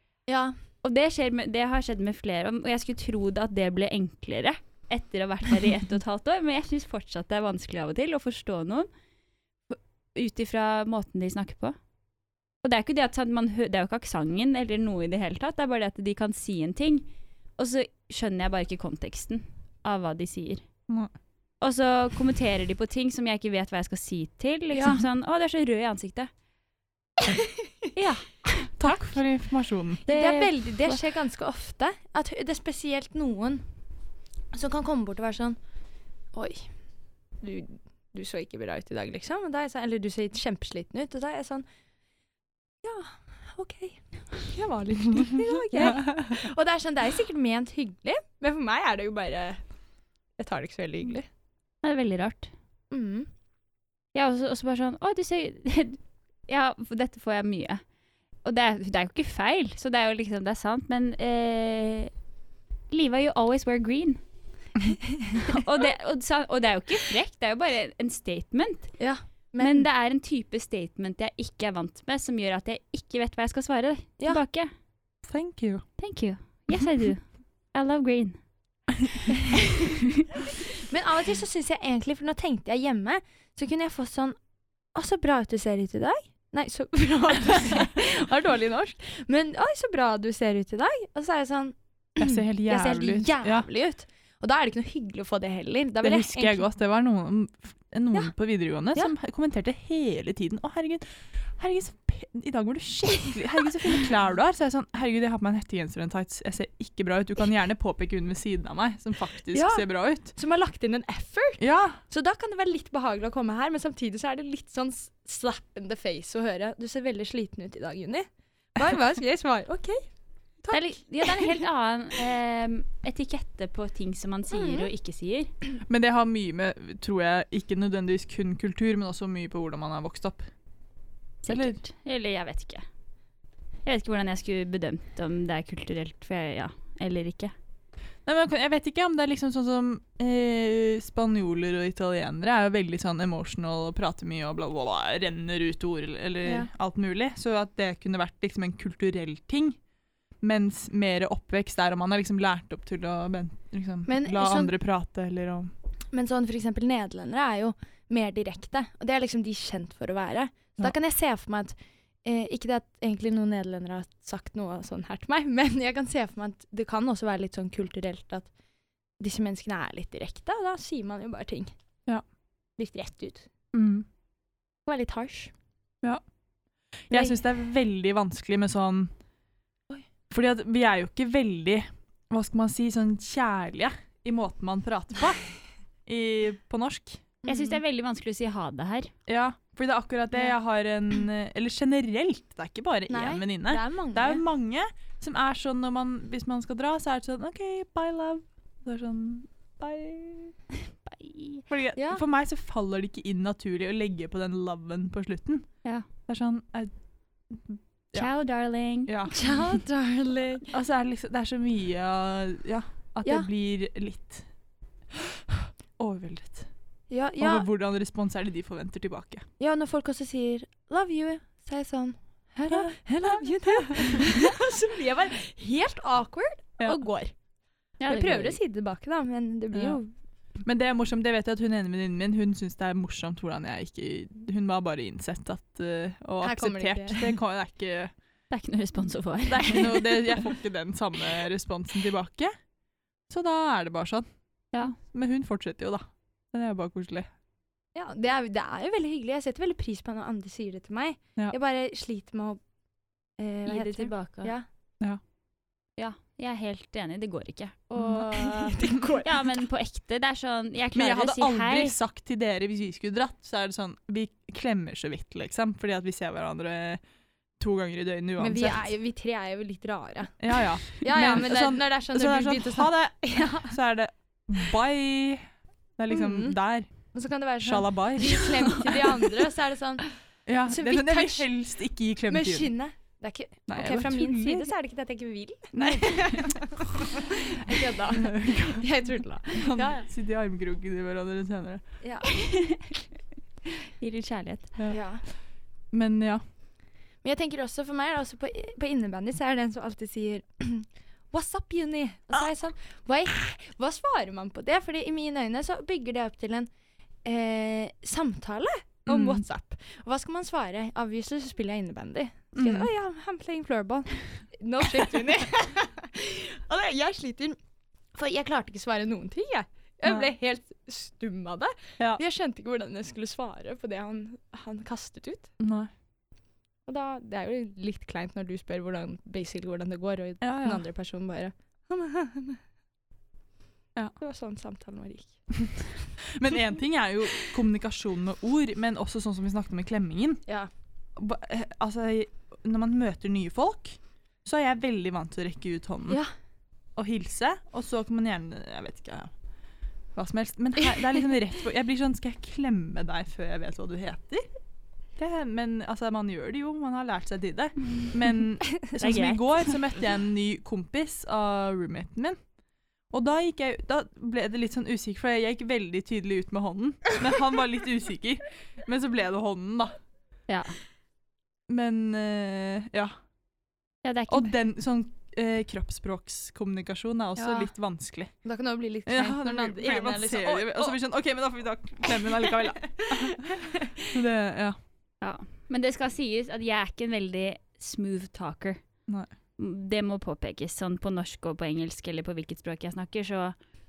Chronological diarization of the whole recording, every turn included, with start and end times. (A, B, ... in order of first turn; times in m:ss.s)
0:00.3-0:00.6 A
0:00.8-0:08.9 B
0:09.7-0:11.8 B
0:12.6-0:17.1 B
0:17.6-0:20.7 B
0:21.6-0:26.3 B
0:28.0-0:29.1 B
0:28.8-0:30.0 C
0:30.1-0:31.0 B
0:30.1-0:33.6 A
0:34.5-0:35.6 A
0:36.3-0:36.7 A
0:37.4-0:41.6 A
0:42.8-0:49.6 A
0:45.1-0:46.4 C
0:50.4-0:51.3 A
0:51.8-0:52.5 B
0:52.9-0:53.3 A
0:54.2-0:57.8 B
0:58.4-1:02.1 B
1:02.9-1:04.2 B
1:05.1-1:05.4 A
1:05.3-1:09.0 B
1:09.0-1:09.9 A
1:09.6-1:14.7 B
1:15.2-1:15.8 C
1:16.0-1:18.4 B
1:19.5-1:20.3 B
1:20.8-1:24.4 A
1:24.9-1:36.7 A
1:32.2-1:33.7 C
1:36.0-1:50.3 C
1:49.5-2:00.1 A
1:51.6-1:52.0 C
2:00.6-2:01.6 A
2:00.7-2:05.5 B
2:04.5-2:04.9 A
2:05.9-2:10.5 C
2:11.4-2:12.8 B
2:11.5-2:11.8 C
2:13.8-2:17.5 B
2:18.3-2:29.8 C
2:26.4-2:26.7 A
2:30.4-2:35.7 C
2:34.1-2:34.7 A
2:36.1-2:48.5 A
2:49.2-2:51.7 A
2:52.8-2:53.5 A
2:53.7-2:54.1 C
2:54.9-2:55.5 A
2:57.1-2:59.1 C
2:57.1-2:57.4 A
3:00.3-3:05.5 C
3:06.1-3:07.2 C
3:07.4-3:07.8 A
3:07.5-3:09.1 B
3:09.3-3:20.6 C
3:13.1-3:14.4 A
3:21.1-3:21.6 B
3:21.7-3:25.7 C
3:22.0-3:22.2 A
3:26.3-3:26.9 C
3:27.5-3:28.3 C
3:28.1-3:29.3 B
3:29.1-3:29.4 C
3:29.3-3:30.7 A
3:30.7-3:34.4 C
3:36.0-3:36.7 C
3:37.1-3:37.7 A
3:37.4-3:39.5 C
3:39.6-3:47.3 A
3:42.7-3:44.2 C
3:48.0-3:48.6 B
3:48.1-3:50.1 A
3:49.7-3:50.0 C
3:50.6-3:58.1 C
3:56.4-3:57.4 A
3:58.5-4:00.4 B
3:59.5-4:02.5 C
4:03.3-4:04.2 C
4:05.0-4:07.3 C
4:08.0-4:12.6 A
4:13.4-4:14.7 A
4:13.7-4:14.5 B
4:16.0-4:22.0 B
4:18.0-4:18.2 C
4:18.1-4:19.6 A
4:21.0-4:27.0 C
4:27.6-4:28.9 C
4:28.4-4:33.8 A
4:30.4-4:35.5 C
4:36.0-4:36.9 C
4:36.1-4:36.6 A
4:37.1-4:40.1 A
4:37.6-4:38.9 C
4:40.5-4:42.7 C
4:40.7-4:41.5 A
4:42.3-4:50.1 A
4:43.7-4:44.7 C
4:45.7-4:46.6 C
4:48.2-4:48.8 C
4:49.6-4:51.8 C
4:52.0-4:52.3 A
4:52.3-4:53.0 B
4:53.7-4:54.8 B
4:54.9-4:55.2 A
4:55.9-4:56.4 C
4:57.2-5:06.7 A
5:07.2-5:17.6 A
5:09.1-5:09.4 C
5:12.6-5:12.9 C
5:18.2-5:25.5 A
5:25.6-5:25.9 C
5:26.9-5:32.6 A
5:30.4-5:30.8 C
5:34.2-5:35.9 A
5:36.2-5:40.4 C
5:41.2-5:46.2 C
5:47.0-5:49.3 C
5:50.2-5:54.5 C
5:55.2-6:02.4 C
5:58.9-5:59.8 B
6:03.1-6:09.9 C
6:10.5-6:10.8 B
6:11.7-6:13.1 C
6:14.0-6:14.5 B
6:14.3-6:18.3 C
6:17.4-6:17.7 A
6:18.4-6:21.0 A
6:19.1-6:24.8 C
6:23.0-6:24.1 A
6:25.2-6:28.8 B
6:29.6-6:33.6 B